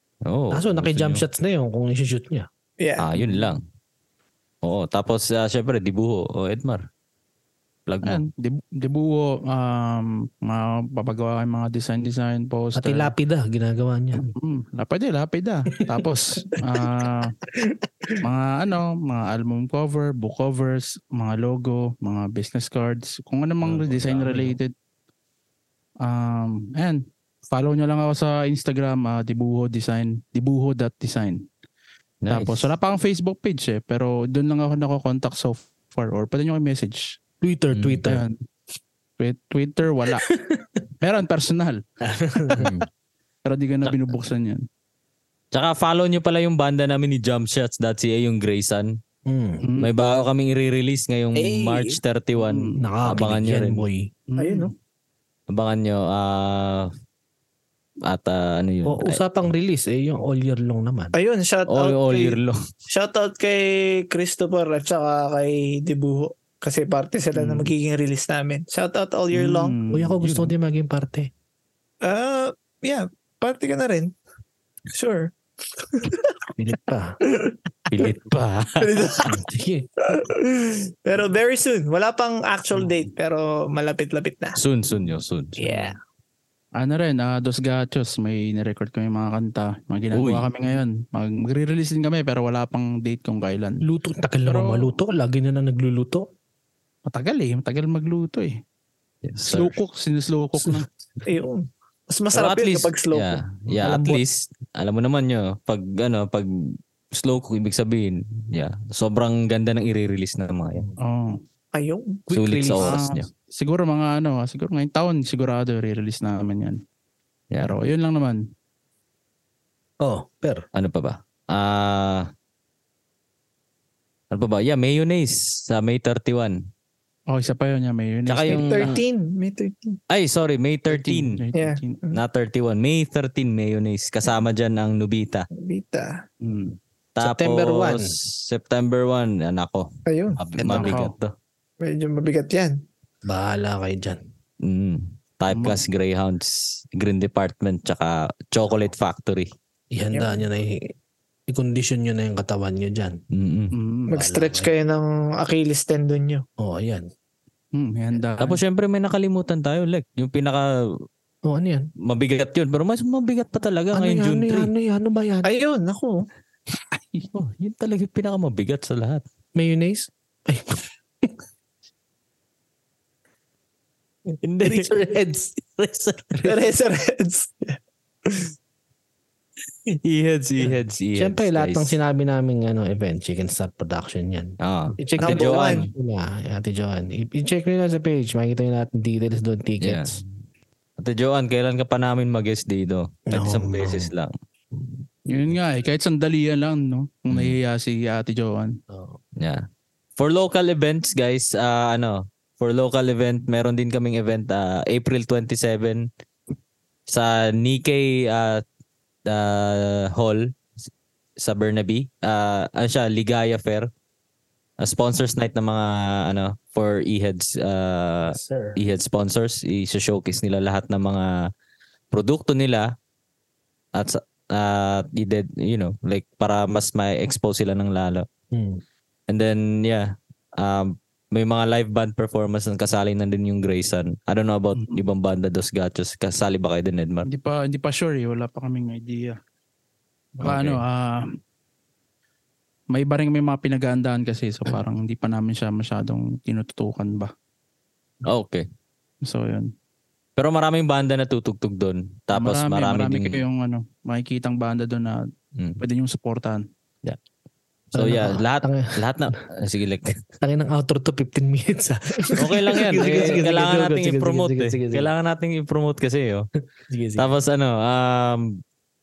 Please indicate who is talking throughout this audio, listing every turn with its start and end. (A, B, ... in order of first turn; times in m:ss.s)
0:00.3-0:01.2 A
0:00.5-0:02.5 B
0:02.8-0:03.1 C
0:03.0-0:03.6 A
0:03.2-0:03.4 D
0:04.6-0:06.9 A
0:07.9-0:08.2 A
0:08.0-0:13.1 D
0:12.8-0:14.3 B
0:14.2-0:17.3 D
0:18.2-0:24.7 D
0:23.8-0:24.5 A
0:26.0-0:31.4 D
0:32.2-0:32.7 A
0:32.3-0:37.2 D
0:37.4-0:38.3 B
0:37.8-0:38.0 A
0:38.0-0:38.4 D
0:39.2-0:40.3 D
0:40.3-0:40.8 B
0:41.0-0:41.8 D
0:42.0-0:42.7 B
0:42.6-0:42.9 A
0:43.5-0:44.7 D
0:45.5-0:49.0 A
0:49.3-0:49.7 B
0:49.6-0:50.2 D
0:49.8-0:53.8 A
0:51.4-0:52.0 C
0:52.4-0:52.8 D
0:52.8-0:54.1 B
0:54.3-0:54.7 D
0:54.4-0:54.7 C
0:55.5-0:56.9 A
0:58.0-0:59.2 A
0:58.8-1:01.1 B
1:01.1-1:02.4 C
1:01.7-1:02.6 A
1:02.9-1:09.8 C
1:07.3-1:07.7 D
1:09.3-1:10.4 D
1:09.9-1:11.3 B
1:12.0-1:14.1 C
1:14.9-1:16.3 C
1:16.6-1:17.2 B
1:17.3-1:18.1 C
1:17.9-1:19.2 A
1:18.8-1:19.4 C
1:19.3-1:19.9 B
1:20.0-1:24.6 C
1:24.6-1:25.9 A
1:25.6-1:26.0 B
1:26.8-1:33.8 D
1:30.1-1:30.5 A
1:33.8-1:36.3 B
1:34.5-1:35.0 D
1:37.1-1:38.6 D
1:39.2-1:39.8 A
1:39.4-1:40.9 D
1:41.2-1:43.4 C
1:42.3-1:50.9 A
1:43.8-1:44.2 B
1:51.0-1:51.4 D
1:51.8-1:52.2 C
1:52.3-1:53.0 B
1:52.3-1:53.3 A
1:52.8-1:56.8 D
1:57.6-1:58.5 D
2:00.0-2:00.6 B
2:00.8-2:02.3 A
2:04.3-2:06.7 A
2:07.3-2:09.0 D
2:08.3-2:09.0 A
2:08.5-2:10.0 C
2:10.1-2:11.4 A
2:10.9-2:12.0 D
2:11.6-2:12.2 C
2:12.1-2:15.5 A
2:15.5-2:16.2 C
2:16.4-2:16.8 D
2:17.2-2:21.3 A
2:17.2-2:18.2 B
2:20.1-2:21.0 C
2:20.7-2:21.1 D
2:21.8-2:22.8 C
2:23.2-2:24.2 B
2:24.6-2:29.5 A
2:25.5-2:25.8 D
2:29.9-2:30.9 B
2:30.1-2:30.4 C
2:31.5-2:33.2 B
2:33.3-2:33.7 A
2:33.7-2:34.2 D
2:34.1-2:34.7 B
2:34.1-2:36.4 C
2:36.6-2:37.1 B
2:37.7-2:38.6 D
2:38.4-2:41.0 A
2:41.5-2:41.9 B
2:42.0-2:44.7 A
2:43.9-2:45.5 B
2:45.4-2:46.3 C
2:46.9-2:47.3 D
2:47.3-2:49.2 A
2:49.6-2:51.4 B
2:54.4-2:54.9 A
2:54.6-2:56.1 B
2:56.2-2:56.5 A
2:56.4-2:57.8 C
2:59.9-3:02.0 A
3:00.7-3:10.2 B
3:04.6-3:05.9 A
3:05.2-3:05.9 C
3:09.8-3:10.3 A
3:11.0-3:14.3 A
3:13.3-3:14.1 B
3:15.3-3:18.8 D
3:17.3-3:17.6 A
3:18.9-3:19.2 B
3:19.4-3:19.6 A
3:20.2-3:26.1 A
3:27.1-3:28.6 A
3:29.3-3:30.5 A
3:31.4-3:33.9 A
3:34.8-3:41.4 A
3:38.3-3:38.8 B
3:42.1-3:42.9 A
3:43.9-3:48.3 A
3:48.5-3:48.8 B
3:49.3-3:57.3 A
3:54.8-3:55.1 D
3:57.2-3:59.4 D
4:00.4-4:01.3 D
4:00.4-4:00.8 A
4:02.9-4:07.3 D
4:08.2-4:08.7 A
4:09.2-4:09.7 D
4:10.4-4:13.4 A
4:12.4-4:15.3 D
4:15.8-4:16.7 D
4:17.9-4:19.3 B
4:18.0-4:20.2 A
4:20.4-4:25.1 B
4:22.4-4:26.5 A
4:26.9-4:27.4 B
4:27.2-4:28.6 A